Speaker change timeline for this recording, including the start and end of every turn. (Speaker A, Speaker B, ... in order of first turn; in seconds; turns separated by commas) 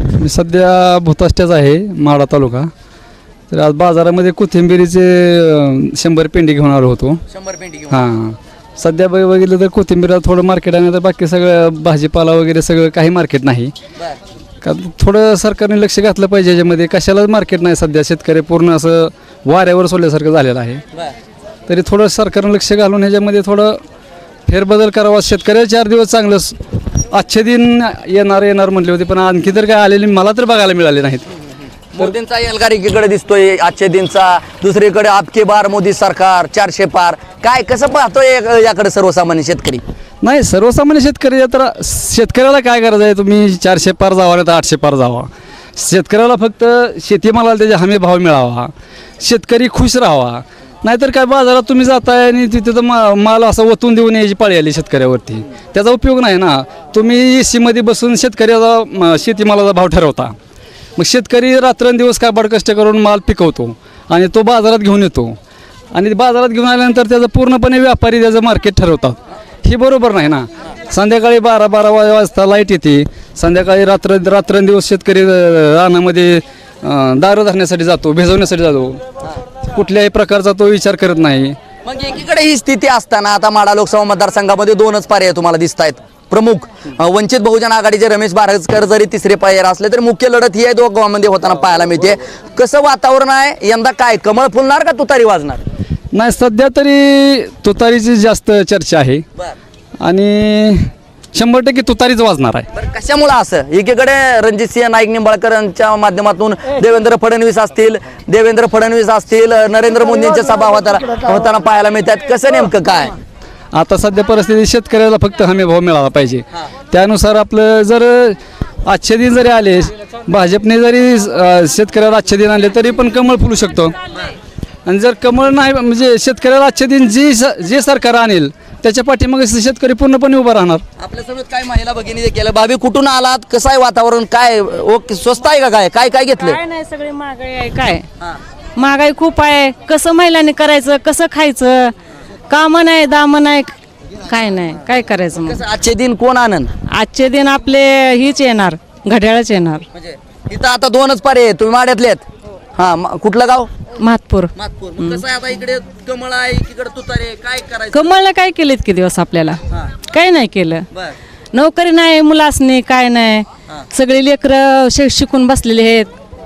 Speaker A: 0.2-2.7, Speaker A: 3.5-7.2, Speaker B: 7.3-8.0, Speaker A: 7.9-13.7, Speaker A: 14.6-20.8, Speaker A: 21.7-23.8, Speaker A: 24.5-31.2, Speaker B: 31.9-39.8, Speaker A: 40.2-60.3, Speaker A: 61.0-65.3, Speaker A: 65.9-79.0, Speaker A: 79.6-81.5, Speaker B: 81.8-95.6, Speaker A: 96.1-99.2, Speaker A: 100.0-102.7, Speaker B: 102.7-113.1, Speaker A: 113.7-124.0, Speaker A: 124.8-130.8, Speaker B: 131.0-136.6, Speaker C: 136.4-138.0, Speaker C: 138.8-141.9, Speaker C: 142.5-145.6, Speaker B: 145.4-146.7, Speaker C: 146.9-149.8, Speaker B: 149.9-152.2, Speaker B: 152.8-153.7, Speaker C: 154.0-155.2, Speaker B: 154.5-158.1, Speaker C: 157.9-160.9, Speaker C: 161.5-166.1